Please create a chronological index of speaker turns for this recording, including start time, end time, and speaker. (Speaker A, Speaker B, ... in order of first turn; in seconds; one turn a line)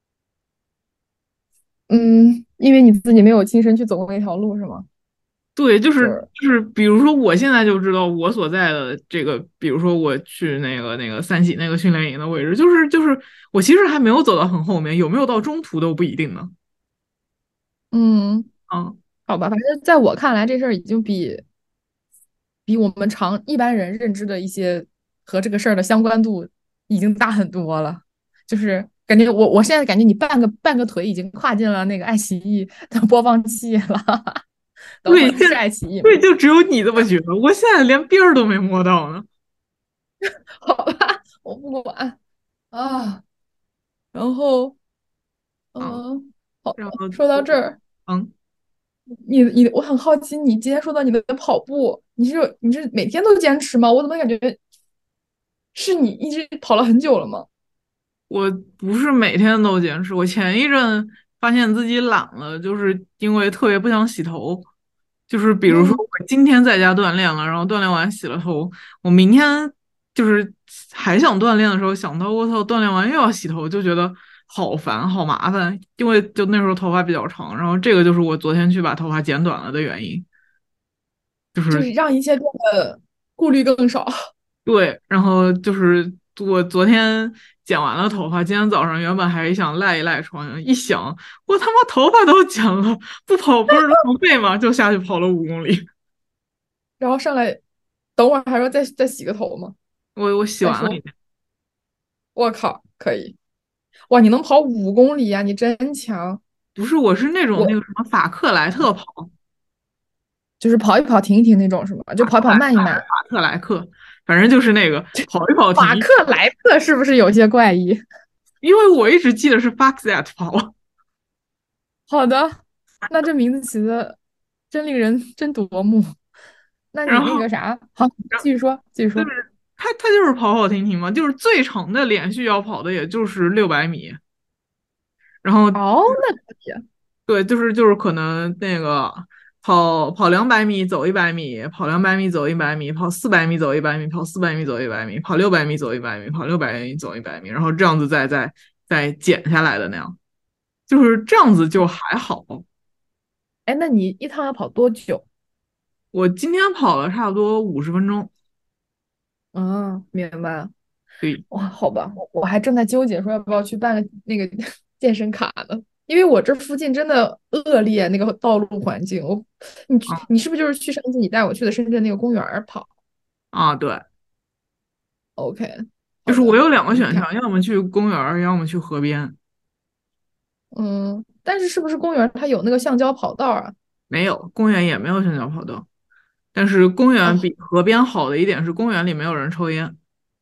Speaker A: 1.9-4.9
Speaker B: 5.6-16.5
Speaker A: 6.0-6.3
Speaker A: 17.9-18.5
Speaker B: 18.7-19.0
Speaker A: 19.3-21.4
Speaker A: 22.7-34.4
Speaker A: 35.0-36.2
Speaker B: 35.1-39.3
Speaker A: 40.2-42.2
Speaker A: 42.7-43.2
Speaker A: 44.1-44.8
Speaker A: 45.8-47.8
Speaker B: 46.8-48.3
Speaker A: 49.2-54.6
Speaker A: 55.7-57.5
Speaker B: 58.3-64.7
Speaker B: 65.3-80.3
Speaker A: 65.7-66.0
Speaker B: 81.5-81.9
Speaker A: 81.7-84.1
Speaker B: 84.7-95.9
Speaker A: 97.0-97.6
Speaker A: 98.2-99.8
Speaker B: 100.2-101.1
Speaker A: 100.6-101.0
Speaker A: 102.4-103.4
Speaker A: 104.1-106.4
Speaker B: 106.8-109.3
Speaker A: 110.6-113.0
Speaker B: 112.2-116.1
Speaker A: 115.8-118.0
Speaker B: 118.6-120.7
Speaker A: 122.1-124.2
Speaker A: 124.7-126.1
Speaker A: 126.9-129.3
Speaker B: 127.1-127.5
Speaker B: 129.2-134.2
Speaker B: 135.4-135.8
Speaker A: 135.8-136.8
Speaker B: 137.3-150.2
Speaker B: 150.9-152.7
Speaker A: 153.7-155.2
Speaker B: 156.1-158.3
Speaker A: 159.5-160.7
Speaker A: 161.5-172.9
Speaker B: 173.5-174.1
Speaker A: 175.4-177.3
Speaker B: 176.3-179.4
Speaker A: 180.7-183.7
Speaker B: 184.1-185.9
Speaker B: 186.5-190.0